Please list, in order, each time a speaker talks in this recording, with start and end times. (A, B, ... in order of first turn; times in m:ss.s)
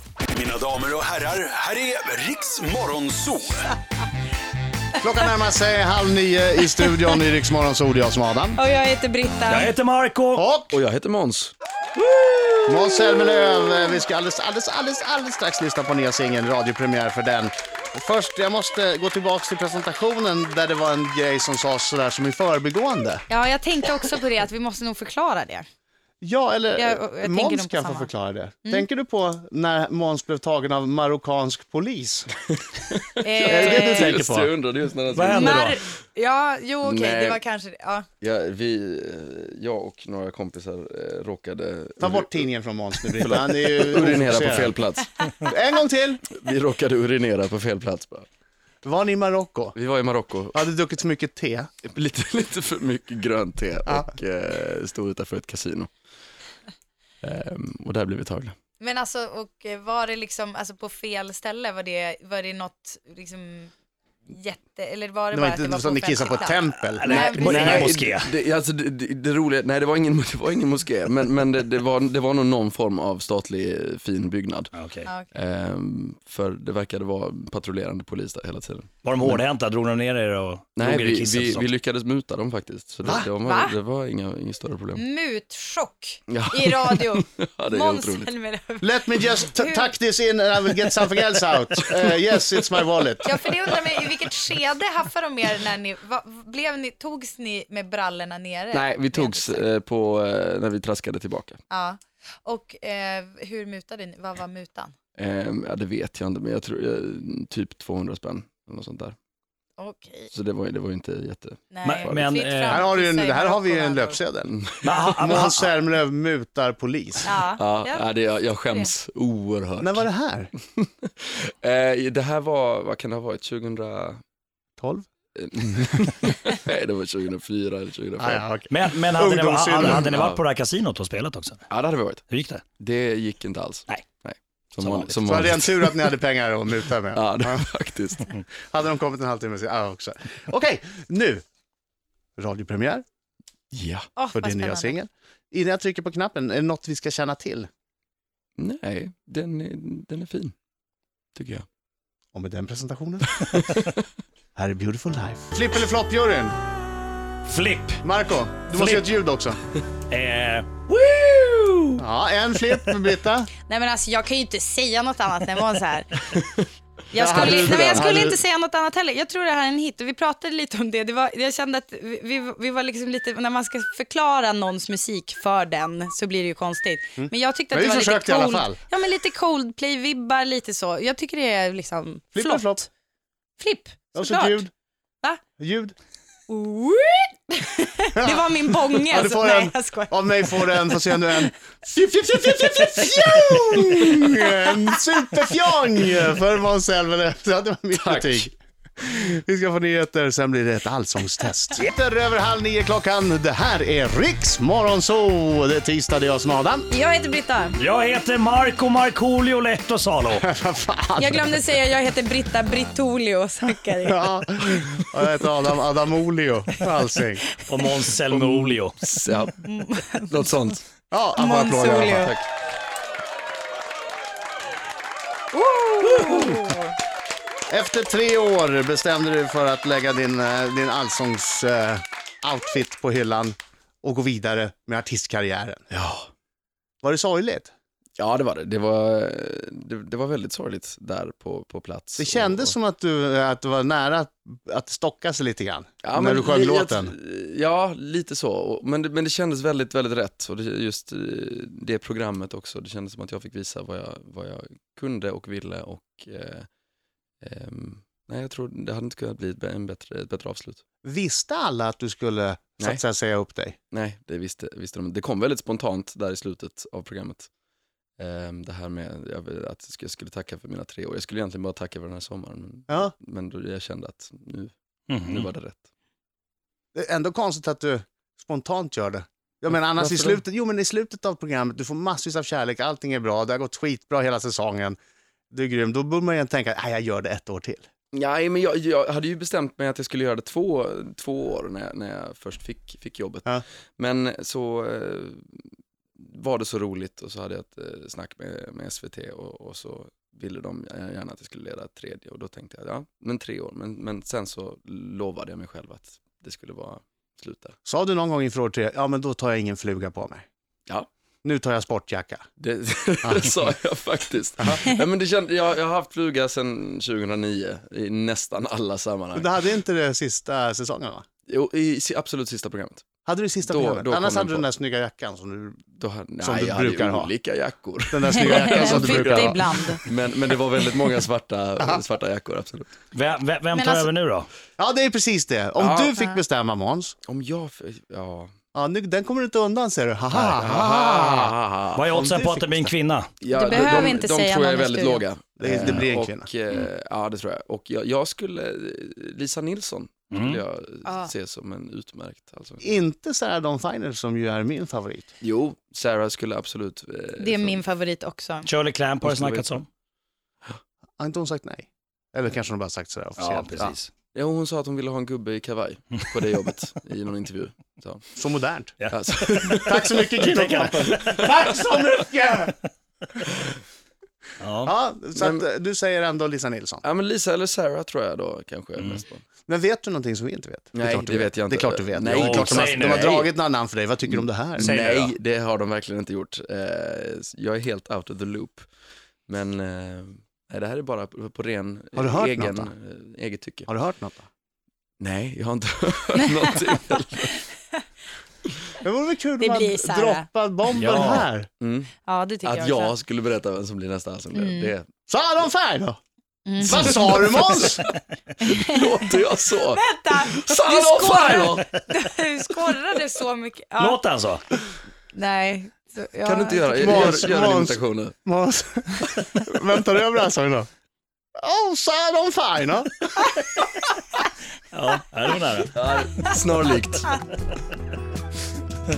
0:00.3-0:03.7 A
0:05.0-0:08.6 B
0:08.6-0:09.7 C
0:09.5-0:10.5 D
0:10.3-0:10.8 B
0:10.7-0:11.5 E
0:12.7-0:23.3 B
0:23.3-0:25.6 C
0:26.2-0:32.3 B
0:26.8-0:28.1 C
0:32.5-0:35.7 E
0:33.2-0:34.2 C
0:33.4-0:34.5 B
0:35.1-0:35.8 D
0:35.3-0:38.1 C
0:36.8-0:37.4 E
0:38.2-0:42.5 E
0:42.0-0:44.8 B
0:43.0-0:45.1 E
0:45.4-0:46.2 B
0:46.3-0:48.3 E
0:48.8-0:49.8 B
0:49.8-0:50.6 E
0:50.5-0:51.7 B
0:51.8-0:55.9 E
0:57.2-0:58.6 E
0:58.8-1:03.7 C
1:04.3-1:07.8 C
1:05.3-1:08.0 B
1:06.9-1:08.3 D
1:07.1-1:14.7 E
1:14.7-1:15.1 D
1:15.3-1:19.4 E
1:19.0-1:21.6 D
1:20.8-1:25.0 E
1:23.4-1:23.7 C
1:25.0-1:29.9 C
1:26.3-1:28.3 E
1:28.8-1:33.4 B
1:31.9-1:32.3 E
1:33.2-1:39.6 C
1:38.7-1:41.6 E
1:41.7-1:44.9 C
1:45.2-1:49.1 E
1:49.8-1:50.3 C
1:50.3-1:52.2 E
1:51.7-1:54.2 C
1:51.8-1:52.9 D
1:52.7-1:57.3 B
1:54.5-1:54.9 E
1:54.8-1:55.7 D
1:57.2-1:58.1 C
1:57.6-2:00.1 E
1:59.8-2:00.5 B
2:00.8-2:04.2 E
2:04.8-2:05.1 B
2:05.4-2:08.5 E
2:08.2-2:10.1 B
2:08.7-2:11.6 D
2:09.9-2:10.4 E
2:11.7-2:12.2 E
2:12.3-2:12.6 D
2:12.8-2:16.0 E
2:14.8-2:15.1 D
2:15.2-2:17.6 B
2:17.1-2:18.3 E
2:18.6-2:21.4 B
2:22.4-2:23.0 B
2:23.7-2:24.1 E
2:24.2-2:25.0 C
2:24.3-2:27.7 B
2:28.6-2:30.5 E
2:31.4-2:31.6 E
2:32.3-2:33.3 B
2:33.3-2:34.0 E
2:34.6-2:36.6 B
2:37.5-2:38.0 D
2:38.0-2:39.6 B
2:38.7-2:39.1 D
2:40.1-2:42.0 D
2:42.0-2:43.5 B
2:43.7-2:46.2 C
2:46.4-2:46.6 E
2:47.1-3:02.9 C
2:47.1-2:48.4 B
2:47.4-2:48.1 E
2:57.2-2:58.8 B
3:02.3-3:02.9 B
3:03.6-3:04.6 C
3:04.1-3:04.7 B
3:05.6-3:06.0 B
3:06.5-3:11.4 C
3:08.2-3:26.9 B
3:17.9-3:18.5 E
3:26.9-3:27.8 C
3:27.8-3:30.4 D
3:30.4-3:31.6 B
3:31.2-3:34.3 C
3:34.0-3:37.4 B
3:37.7-3:39.0 D
3:38.3-3:39.6 E
3:39.6-3:40.4 C
3:40.3-3:40.8 E
3:41.1-3:42.3 B
3:41.4-3:42.3 C
3:42.0-3:42.4 E
3:45.5-3:47.0 C
3:47.7-3:55.9 B
3:55.9-3:56.3 E
3:57.0-3:57.7 B
3:58.2-4:02.7 E
4:02.2-4:07.1 B
4:06.0-4:16.7 E
4:17.4-4:20.8 E
4:21.0-4:23.8 B
4:23.9-4:27.5 E
4:28.2-4:35.8 E
4:35.1-4:35.5 D
4:36.9-4:45.0 B
4:40.0-4:40.4 E
4:45.5-4:47.9 B
4:48.1-4:55.7 E
4:56.2-5:07.8 E
5:07.8-5:10.4 B
5:11.4-5:12.4 B
5:12.6-5:19.6 E
5:13.2-5:13.5 B
5:19.3-5:21.2 B
5:21.5-5:23.1 E
5:23.2-5:25.8 B
5:23.6-5:24.7 E
5:26.0-5:32.9 E
5:26.4-5:27.3 B
5:28.1-5:29.6 B
5:28.3-5:30.0 C
5:33.1-5:34.5 D
5:33.7-5:34.1 C
5:34.8-5:37.1 B
5:35.8-5:36.1 E
5:37.3-5:38.5 E
5:38.7-5:41.5 B
5:40.6-5:42.0 E
5:42.0-5:43.3 D
5:42.1-5:42.9 B
5:43.4-5:52.9 E
5:43.5-5:45.2 C
5:45.6-5:46.5 B
5:50.3-5:50.6 D
5:51.0-5:51.3 C
5:52.8-5:55.3 B
5:55.4-5:57.8 E
5:57.4-5:58.7 C
5:58.6-5:59.9 D
5:59.2-5:59.7 E
6:01.2-6:04.0 B
6:03.4-6:04.1 D
6:04.3-6:08.2 E
6:08.4-6:09.0 B
6:09.1-6:11.7 E
6:09.8-6:12.8 B
6:10.5-6:11.5 D
6:14.6-6:14.9 D
6:14.8-6:17.0 B
6:15.4-6:15.6 E
6:17.0-6:19.4 E
6:19.7-6:25.0 B
6:21.0-6:23.5 E
6:22.3-6:23.4 D
6:24.8-6:28.9 E
6:24.8-6:25.3 D
6:29.5-6:33.9 E
6:32.2-6:32.9 B
6:33.9-6:34.5 B
6:35.2-6:37.6 E
6:36.4-6:37.0 C
6:39.0-6:41.7 B
6:39.6-6:40.5 C
6:41.0-6:41.5 D
6:41.8-6:42.1 E
6:42.2-6:43.1 C
6:42.6-6:45.0 E
6:44.5-6:44.9 C
6:45.3-6:46.2 B
6:46.6-6:47.4 C
6:46.8-6:48.0 B
6:47.4-6:51.9 E
6:48.6-6:49.4 C
6:49.9-6:54.2 C
6:54.0-6:54.6 D
6:55.3-6:57.4 C
6:56.4-6:58.3 E
6:57.0-7:00.9 B
7:01.6-7:03.3 B
7:04.9-7:06.0 D
7:05.9-7:07.3 E